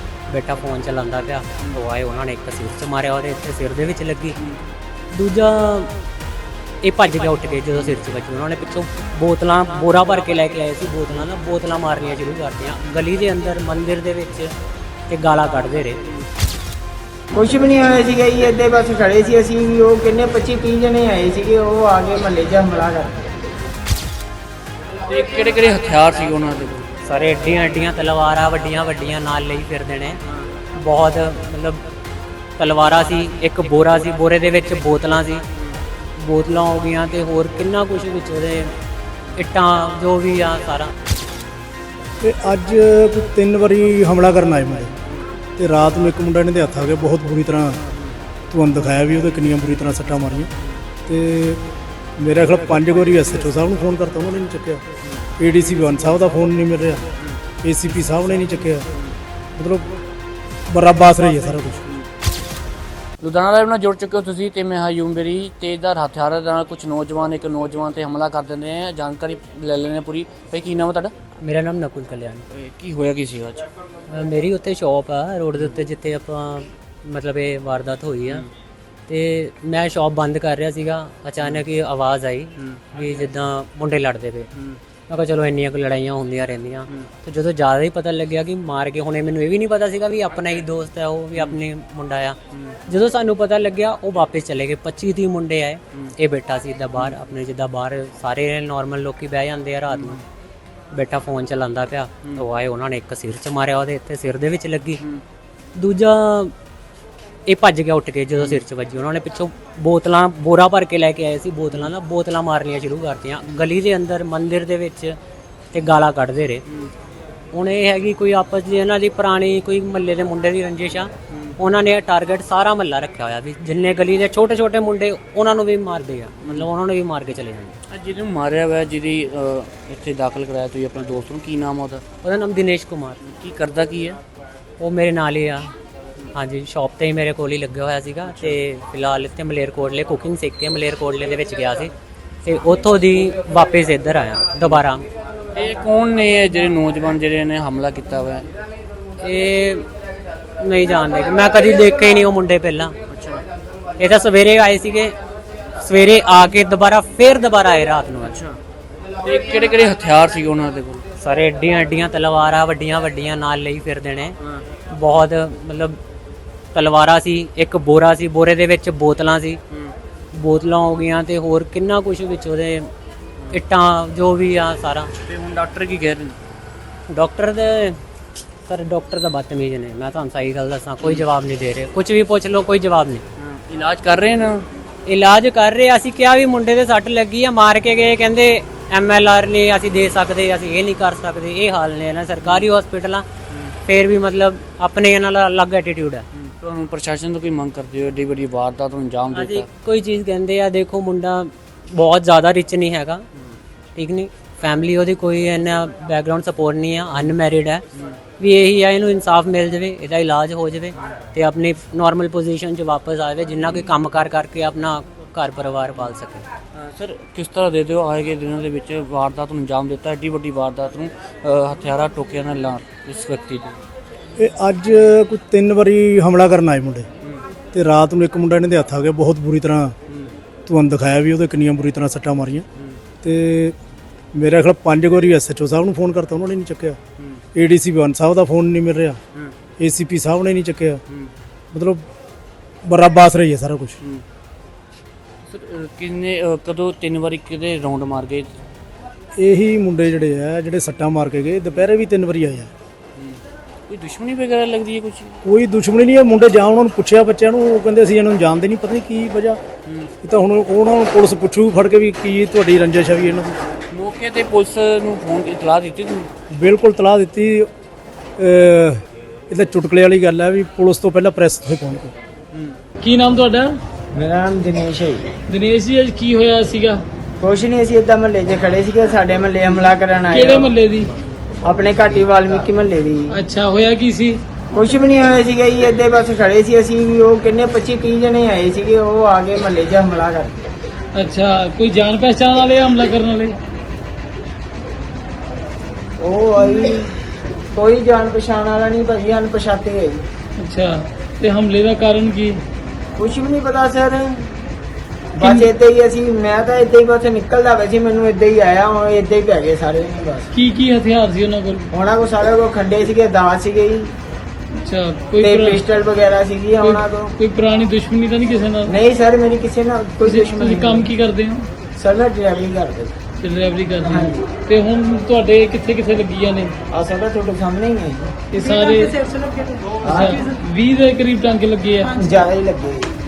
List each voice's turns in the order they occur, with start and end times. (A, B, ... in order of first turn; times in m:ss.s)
0:00.3-0:04.4 A
0:05.1-0:06.0 A
0:06.8-0:14.5 A
0:15.1-0:16.0 A
0:17.3-0:23.3 B
0:25.1-0:26.9 C
0:27.0-0:30.2 A
0:30.7-0:31.8 A
0:32.6-0:35.4 A
0:36.2-0:38.7 A
0:39.3-0:40.9 A
0:42.2-0:44.9 D
0:45.6-0:47.8 D
0:48.5-0:50.5 D
0:51.1-0:51.6 D
0:52.2-0:54.8 D
0:55.4-0:57.0 D
0:57.6-0:58.9 D
0:59.6-0:59.9 D
1:00.7-1:01.8 D
1:03.2-1:11.1 C
1:11.4-1:12.4 A
1:12.5-1:13.7 C
1:14.1-1:18.4 A
1:19.1-1:24.5 A
1:25.1-1:40.2 A
1:32.5-1:32.8 C
1:39.9-1:40.2 C
1:40.9-1:45.0 A
1:45.7-1:46.5 A
1:47.4-1:55.2 A
1:48.4-1:48.6 C
1:55.7-1:56.6 A
1:57.5-2:07.8 A
2:01.3-2:01.6 C
2:07.9-2:12.0 C
2:12.2-2:13.2 A
2:13.2-2:14.2 C
2:14.8-2:15.7 A
2:16.3-2:21.9 A
2:22.4-2:25.0 A
2:25.5-2:28.4 C
2:29.2-2:29.8 A
2:30.6-2:32.9 A
2:33.1-2:33.4 C
2:34.0-2:35.1 A
2:35.8-2:38.4 A
2:38.2-2:38.6 C
2:39.2-2:41.0 C
2:41.2-2:44.4 A
2:44.9-2:46.0 A
2:46.7-2:49.6 A
2:50.3-2:52.9 A
2:53.5-2:55.1 A
2:55.2-2:56.4 C
2:57.1-2:58.0 A
2:58.7-3:03.2 A
3:03.4-3:04.7 C
3:05.0-3:13.2 A
3:13.8-3:16.2 A
3:16.3-3:19.7 C
3:19.3-3:23.2 A
3:23.9-3:27.8 A
3:28.4-3:36.4 A
3:36.7-3:43.8 C
3:44.4-3:47.1 D
3:47.7-3:49.9 D
3:50.1-3:50.3 C
3:50.6-3:52.6 D
3:53.2-3:53.8 D
3:54.3-3:57.0 D
3:57.2-3:57.4 C
3:57.5-3:59.2 D
3:59.8-4:01.0 D
4:01.7-4:02.0 D
4:02.8-4:04.0 D
4:05.5-4:08.5 C
4:09.4-4:12.7 D
4:13.2-4:15.4 C
4:15.4-4:19.6 D
4:19.8-4:20.1 C
4:20.2-4:23.6 D
4:23.9-4:26.3 C
4:26.5-4:27.7 D
4:28.4-4:32.1 D
4:33.0-4:33.8 E
4:34.1-4:35.3 B
4:35.5-4:37.0 E
4:37.4-4:40.7 B
4:40.4-4:41.1 E
4:41.6-4:43.4 B
4:43.3-4:44.4 E
4:44.7-4:50.7 B
4:51.1-4:53.6 E
4:56.2-4:57.1 B
4:57.7-5:00.2 B
5:00.6-5:02.6 E
5:03.1-5:04.6 B
5:05.4-5:10.5 B
5:10.5-5:11.9 E
5:11.9-5:14.1 B
5:14.7-5:15.7 E
5:15.4-5:17.4 B
5:17.4-5:18.9 E
5:18.9-5:21.1 B
5:20.3-5:21.7 E
5:22.0-5:23.2 B
5:23.4-5:26.7 E
5:24.0-5:24.4 B
5:26.9-5:29.1 B
5:28.6-5:32.1 E
5:30.0-5:30.5 B
5:32.1-5:33.1 B